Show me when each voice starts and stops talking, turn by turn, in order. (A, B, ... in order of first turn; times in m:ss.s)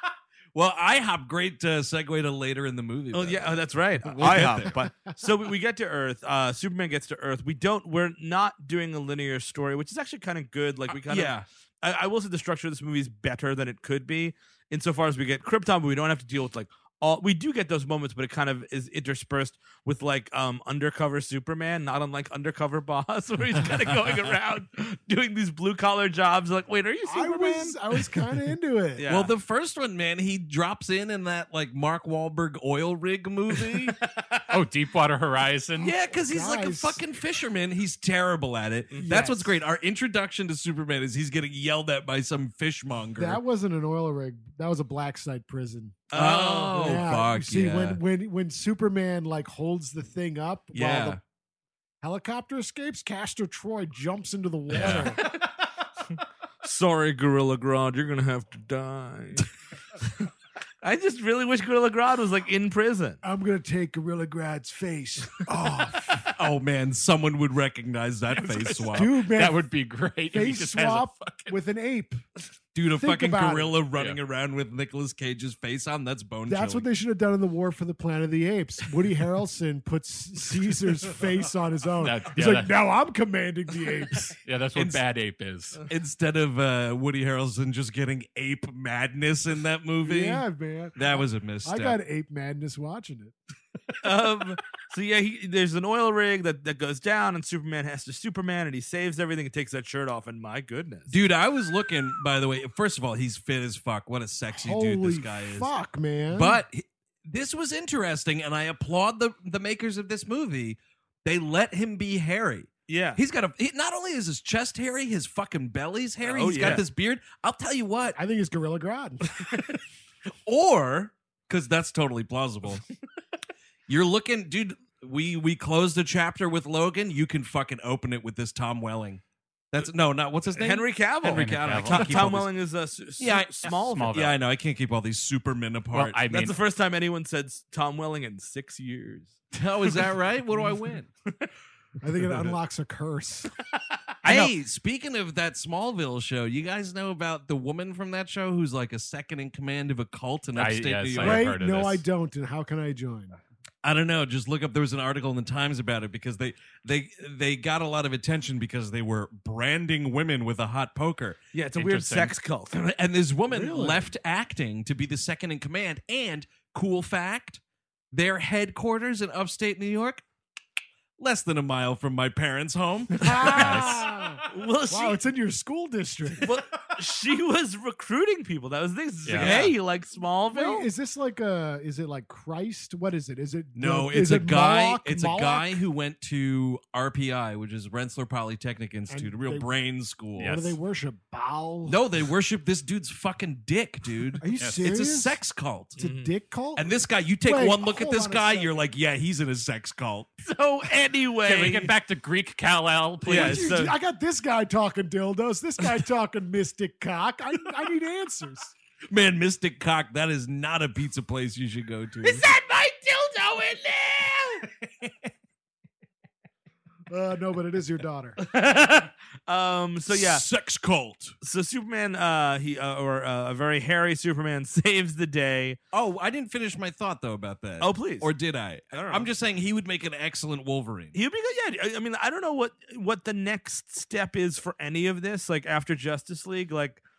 0:00.5-0:04.7 A
0:03.1-0:27.8 B
0:10.9-0:11.4 A
0:27.1-0:29.0 C
0:29.0-0:29.3 B
0:29.0-0:34.0 A
0:34.5-0:35.9 D
0:35.8-0:43.4 A
0:36.3-0:37.0 C
0:39.0-0:39.5 C
0:43.2-0:46.1 C
0:46.1-0:46.9 B
0:46.1-0:48.0 A
0:46.7-0:51.2 C
0:50.7-0:51.2 A
0:52.0-0:55.2 C
0:54.7-0:55.1 A
0:54.7-0:55.1 D
0:56.6-0:59.4 B
1:00.8-1:03.2 B
1:03.2-1:06.3 C
1:05.5-1:09.1 A
1:08.4-1:11.6 D
1:08.9-1:09.6 C
1:10.3-1:12.2 C
1:12.7-1:16.8 A
1:12.9-1:13.7 C
1:16.5-1:24.3 C
1:22.0-1:22.7 D
1:24.2-1:25.8 D
1:24.7-1:25.0 A
1:25.8-1:32.0 A
1:30.0-1:33.3 C
1:34.0-1:41.2 B
1:41.1-1:45.7 A
1:44.5-1:46.6 C
1:46.3-1:58.2 A
1:52.9-1:53.2 B
1:56.2-1:56.8 B
1:58.1-1:59.3 C
2:00.4-2:02.8 A
2:03.9-2:09.2 A
2:09.7-2:12.5 A
2:10.5-2:14.3 B
2:11.3-2:12.3 D
2:13.2-2:16.2 A
2:13.7-2:14.3 D
2:15.9-2:16.6 D
2:16.3-2:20.0 B
2:19.5-2:21.1 A
2:22.0-2:23.5 C
2:24.2-2:24.5 B
2:24.2-2:31.5 A
2:30.6-2:32.0 D
2:31.2-2:33.4 C
2:33.8-2:41.4 A
2:41.5-2:42.7 B
2:41.7-2:42.4 D
2:42.7-2:47.6 A
2:43.5-2:44.1 C
2:48.1-2:50.2 A
2:51.2-2:53.9 A
2:53.1-2:56.5 C
2:53.5-2:54.0 D
2:54.5-2:55.2 B
2:56.4-3:00.9 B
2:59.2-2:59.5 D
2:59.3-2:59.8 A
3:00.5-3:05.8 C
3:03.7-3:10.6 A
3:09.1-3:09.7 C
3:10.4-3:10.8 D
3:10.4-3:12.0 C
3:11.9-3:16.0 A
3:14.4-3:15.4 C
3:16.0-3:16.3 B
3:16.0-3:18.8 C
3:16.8-3:20.3 A
3:20.4-3:21.9 B
3:21.4-3:23.8 D
3:23.2-3:23.9 B
3:23.3-3:28.7 C
3:29.1-3:32.4 A
3:32.2-3:34.7 B
3:37.1-3:38.4 C
3:38.4-3:40.4 B
3:40.1-3:41.3 A
3:41.4-3:45.8 B
3:45.9-3:51.2 A
3:47.8-3:48.3 B
3:48.9-3:49.3 B
3:51.1-3:57.0 B